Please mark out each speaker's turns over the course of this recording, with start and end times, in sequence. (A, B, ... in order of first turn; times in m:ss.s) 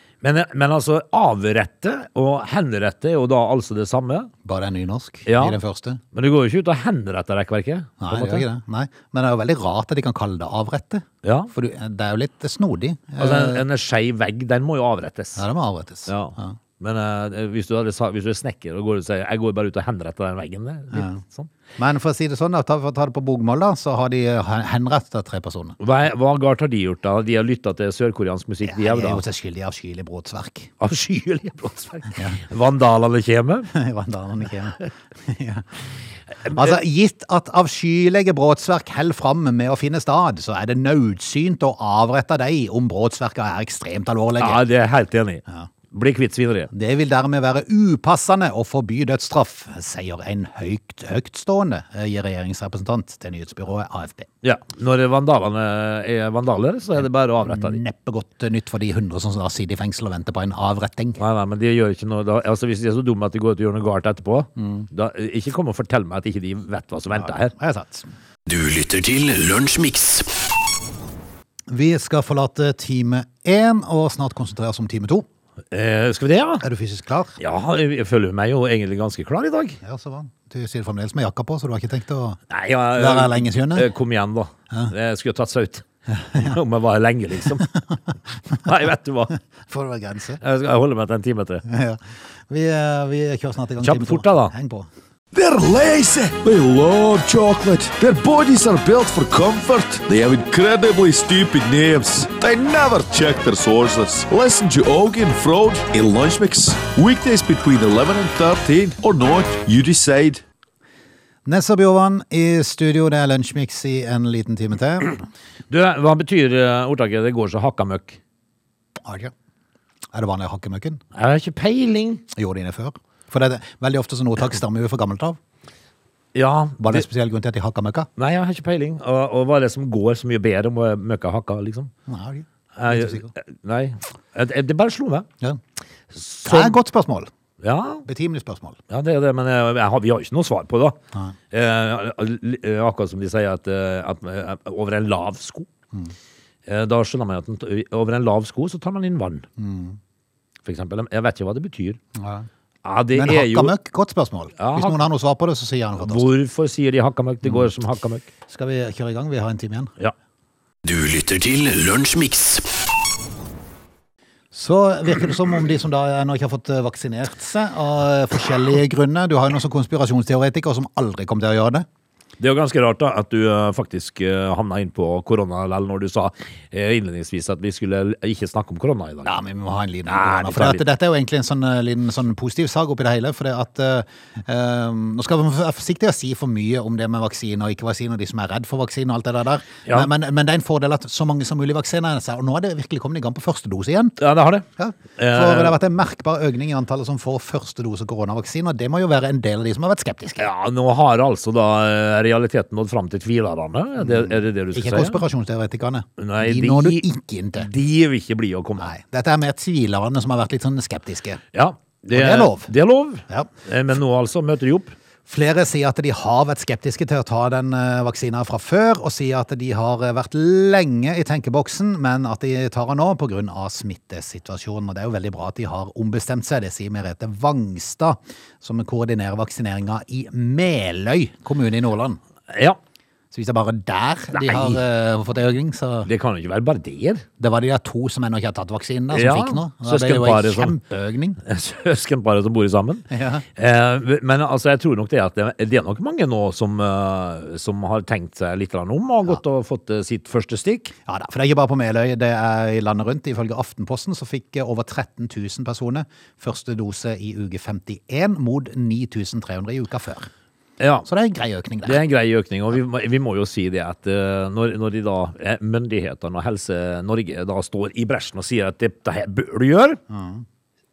0:00.2-0:04.3 A
0:04.4-0:06.0 B
0:05.3-0:05.6 A
0:06.1-0:08.4 A
0:08.0-0:13.6 B
0:11.2-0:11.5 A
0:13.2-0:15.4 A
0:15.4-0:16.6 B
0:16.1-0:21.5 A
0:20.9-0:21.2 B
0:21.8-0:25.8 B
0:25.8-0:29.2 A
0:28.6-0:30.7 B
0:30.8-0:33.7 A
0:32.2-0:32.4 B
0:33.7-0:35.7 B
0:36.5-0:36.7 A
0:36.5-0:44.6 B
0:44.4-0:46.7 A
0:46.7-0:54.3 B
0:54.4-0:57.8 A
0:57.4-1:01.2 B
1:01.2-1:07.5 A
1:04.6-1:04.9 B
1:07.1-1:08.1 B
1:08.5-1:10.3 C
1:11.7-1:15.3 B
1:15.7-1:16.6 A
1:16.6-1:17.4 B
1:17.4-1:19.8 A
1:19.8-1:22.4 B
1:22.5-1:27.7 A
1:23.0-1:23.9 B
1:26.2-1:26.6 B
1:28.6-1:29.4 A
1:29.7-1:30.4 B
1:30.4-1:31.6 A
1:31.7-1:34.9 B
1:33.8-1:34.5 A
1:35.3-1:50.4 D
1:51.5-1:55.2 B
1:55.7-1:58.2 A
1:59.0-1:59.3 B
2:00.1-2:01.0 B
2:01.2-2:02.2 A
2:02.3-2:05.4 B
2:06.3-2:07.0 A
2:06.8-2:08.1 B
2:08.2-2:11.9 A
2:12.1-2:13.3 B
2:12.8-2:15.3 A
2:16.1-2:16.8 A
2:16.4-2:17.3 B
2:17.6-2:18.0 A
2:18.0-2:18.8 B
2:18.9-2:21.0 A
2:21.5-2:25.7 A
2:26.7-2:29.4 A
2:29.6-2:30.0 B
2:30.6-2:32.0 A
2:32.2-2:32.5 B
2:32.8-2:33.7 A
2:33.1-2:36.3 B
2:34.6-2:35.0 A
2:36.0-2:38.3 A
2:38.5-2:39.9 B
2:40.8-2:42.7 C
2:44.5-2:51.9 B
2:52.4-2:59.3 A
2:59.2-3:14.2 B
3:00.1-3:00.8 A
3:14.2-3:14.7 A
3:14.8-3:20.5 B
3:15.2-3:15.8 A
3:20.4-3:25.2 A
3:24.0-3:27.7 B
3:26.2-3:27.1 A
3:27.6-3:28.9 A
3:28.8-3:31.4 B
3:31.5-3:35.0 A
3:32.1-3:32.7 B
3:35.3-3:52.2 B
3:52.5-3:52.8 A
3:53.3-3:56.1 B
3:54.4-3:54.8 A
3:56.1-3:57.2 A
3:57.4-4:01.4 B
3:59.1-4:00.8 A
4:01.4-4:10.9 A
4:03.1-4:03.4 B
4:11.1-4:20.3 B
4:20.8-4:21.1 A
4:21.1-4:22.0 B
4:21.8-4:30.0 A
4:30.1-4:30.4 B